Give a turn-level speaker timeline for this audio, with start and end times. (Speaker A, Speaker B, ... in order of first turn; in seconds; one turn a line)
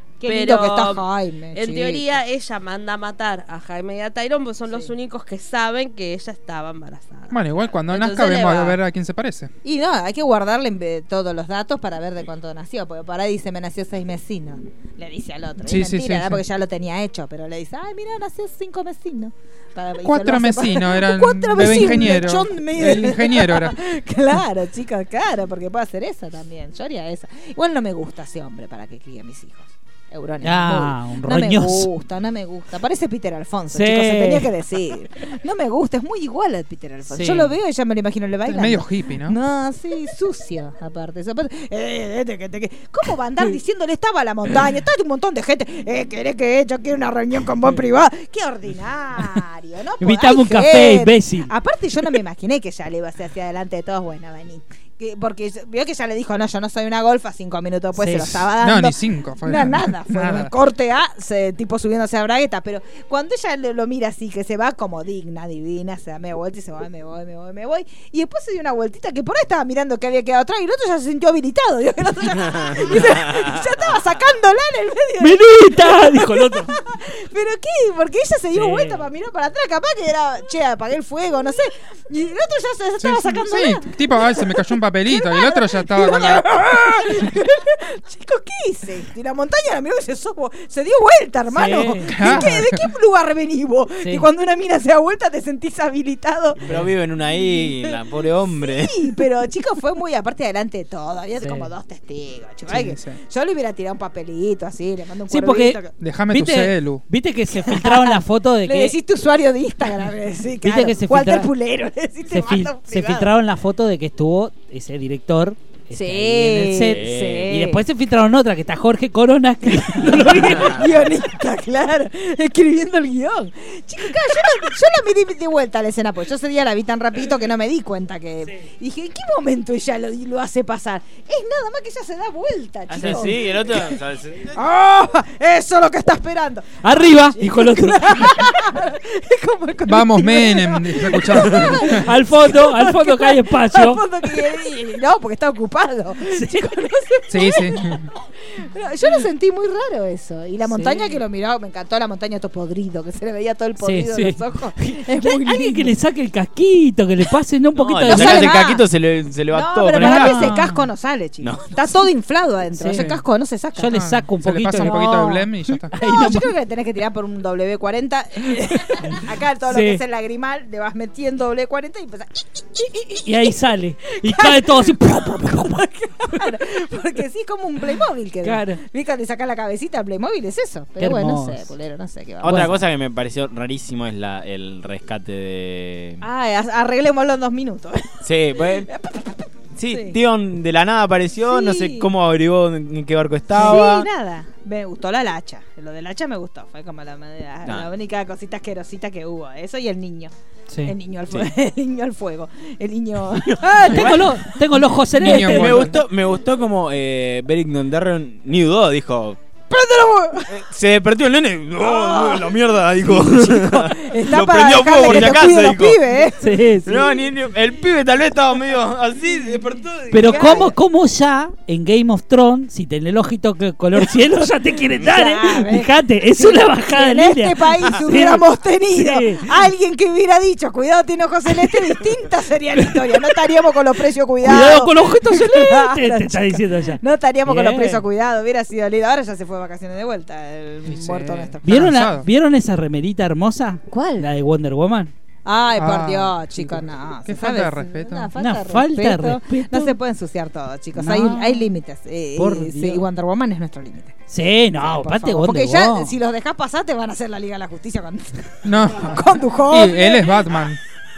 Speaker A: 0.2-2.2
Speaker B: 0.2-8.8
Speaker C: 7.3-9.5
Speaker A: 9.6-105.9
Speaker C: 15.6-16.4
Speaker C: 20.0-23.8
Speaker D: 30.4-31.9
Speaker D: 33.7-34.5
Speaker D: 37.1-37.5
Speaker C: 38.5-39.4
Speaker D: 50.0-51.5
Speaker D: 58.0-58.4
Speaker C: 58.6-60.5
Speaker D: 75.2-76.7
Speaker D: 78.5-79.0
Speaker C: 83.0-86.6
Speaker D: 91.5-92.5
Speaker C: 92.1-92.8
Speaker D: 94.0-94.3
Speaker E: 96.6-99.1
Speaker D: 101.4-101.7
Speaker C: 102.7-103.2
Speaker D: 105.3-109.0
Speaker C: 106.0-107.0
Speaker A: 107.5-113.3
Speaker D: 110.6-111.5
Speaker D: 112.3-120.9
Speaker A: 115.9-117.8
Speaker E: 116.9-117.5
Speaker A: 120.0-134.0
Speaker E: 132.9-134.6
Speaker D: 132.9-133.4
Speaker A: 134.5-155.9
Speaker D: 136.8-138.5
Speaker C: 139.8-142.1
Speaker D: 141.7-144.0
Speaker D: 146.3-146.9
Speaker C: 147.3-148.1
Speaker D: 150.6-151.2
Speaker D: 153.8-158.6
Speaker E: 157.8-160.5
Speaker A: 158.1-158.8
Speaker A: 159.5-163.9
Speaker D: 159.9-160.8
Speaker E: 161.4-161.8
Speaker D: 162.7-163.1
Speaker C: 162.9-163.2
Speaker D: 163.8-166.5
Speaker C: 163.9-165.9
Speaker A: 164.8-165.3
Speaker A: 165.9-173.5
Speaker D: 168.9-169.1
Speaker D: 169.7-170.0
Speaker D: 173.2-175.8
Speaker A: 174.2-182.8
Speaker D: 178.4-178.8
Speaker D: 181.0-181.7
Speaker E: 182.4-186.2
Speaker D: 182.4-182.7
Speaker A: 186.2-190.2
Speaker E: 188.2-188.9
Speaker E: 189.7-194.1
Speaker A: 191.4-192.1
Speaker A: 193.5-200.3
Speaker D: 193.5-193.8
Speaker D: 200.7-200.9
Speaker A: 200.8-204.3
Speaker E: 203.6-204.3
Speaker D: 203.8-206.0
Speaker C: 205.2-205.9
Speaker E: 205.3-209.4
Speaker A: 209.7-210.6
Speaker E: 210.5-216.0
Speaker A: 211.8-217.2
Speaker D: 215.1-215.4
Speaker D: 216.4-217.0
Speaker E: 216.8-220.4
Speaker D: 220.1-229.4
Speaker A: 220.2-220.7
Speaker A: 225.0-241.9
Speaker D: 234.4-238.0
Speaker C: 240.8-242.2
Speaker D: 241.6-245.1
Speaker A: 243.9-244.3
Speaker A: 245.4-254.2
Speaker C: 245.8-246.5
Speaker C: 247.2-248.3
Speaker D: 248.4-249.9
Speaker D: 250.9-251.7
Speaker D: 252.3-253.1
Speaker D: 254.3-256.1
Speaker A: 254.8-260.5
Speaker C: 258.6-260.8